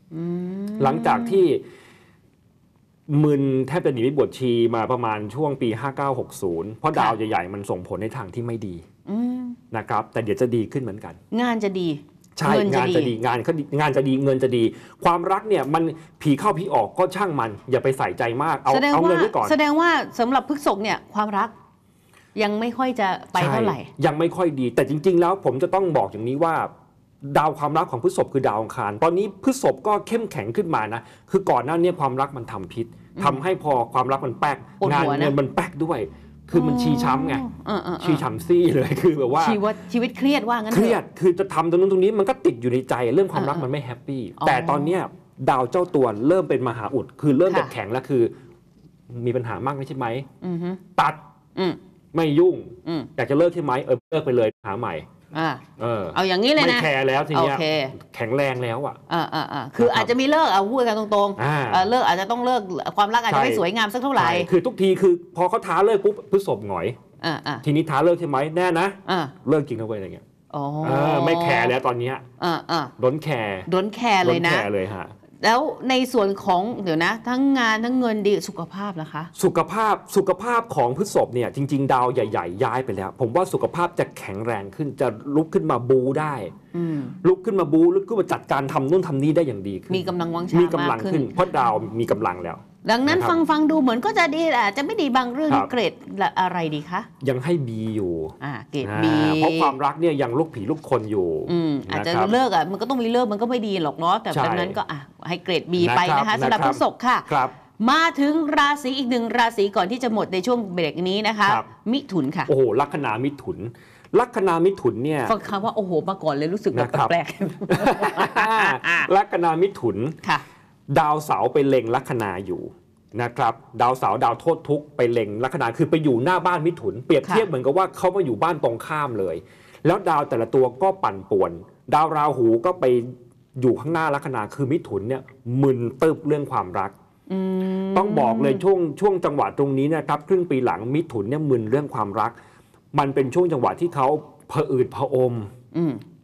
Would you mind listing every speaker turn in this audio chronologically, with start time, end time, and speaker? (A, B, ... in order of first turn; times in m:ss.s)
0:00.1-0:01.4 A
0:00.8-0:01.6 B
0:03.1-0:08.8 B
0:09.1-0:09.6 A
0:09.7-0:11.2 B
0:11.3-0:13.1 A
0:12.4-0:19.6 B
0:18.7-0:21.5 A
0:22.4-0:23.9 A
0:23.4-0:26.7 B
0:27.2-0:37.4 B
0:33.2-0:33.5 A
0:34.8-0:35.4 A
0:36.5-0:38.3 A
0:38.0-0:39.6 B
0:39.4-0:41.0 A
0:40.7-0:48.3 B
0:43.3-0:43.6 A
0:44.4-0:44.9 A
0:49.1-0:50.3 B
0:50.4-0:50.8 A
0:52.1-0:55.1 B
0:55.3-0:57.9 A
0:55.8-0:59.0 B
0:59.1-1:04.5 A
0:59.8-1:00.1 B
1:01.4-1:01.9 B
1:03.3-1:03.6 B
1:04.2-1:07.0 B
1:07.2-1:07.6 A
1:07.6-1:10.2 B
1:09.1-1:09.3 A
1:10.5-1:11.7 A
1:10.8-1:12.2 B
1:12.4-1:12.9 A
1:13.0-1:13.7 B
1:13.7-1:14.7 A
1:14.2-1:15.1 B
1:15.4-1:19.3 A
1:19.4-1:26.5 B
1:26.7-1:27.2 A
1:27.2-1:33.4 B
1:29.9-1:31.4 A
1:32.8-1:37.1 A
1:37.2-1:42.4 B
1:38.4-1:39.8 A
1:41.5-1:47.3 A
1:44.3-1:44.8 B
1:45.8-1:47.5 B
1:47.8-1:52.5 A
1:52.5-1:55.4 B
1:55.3-1:59.1 A
1:56.7-1:57.2 B
1:57.7-2:00.2 B
2:00.9-2:16.9 B
2:17.3-2:18.6 A
2:17.9-2:22.4 B
2:22.9-2:25.5 B
2:25.7-2:26.0 A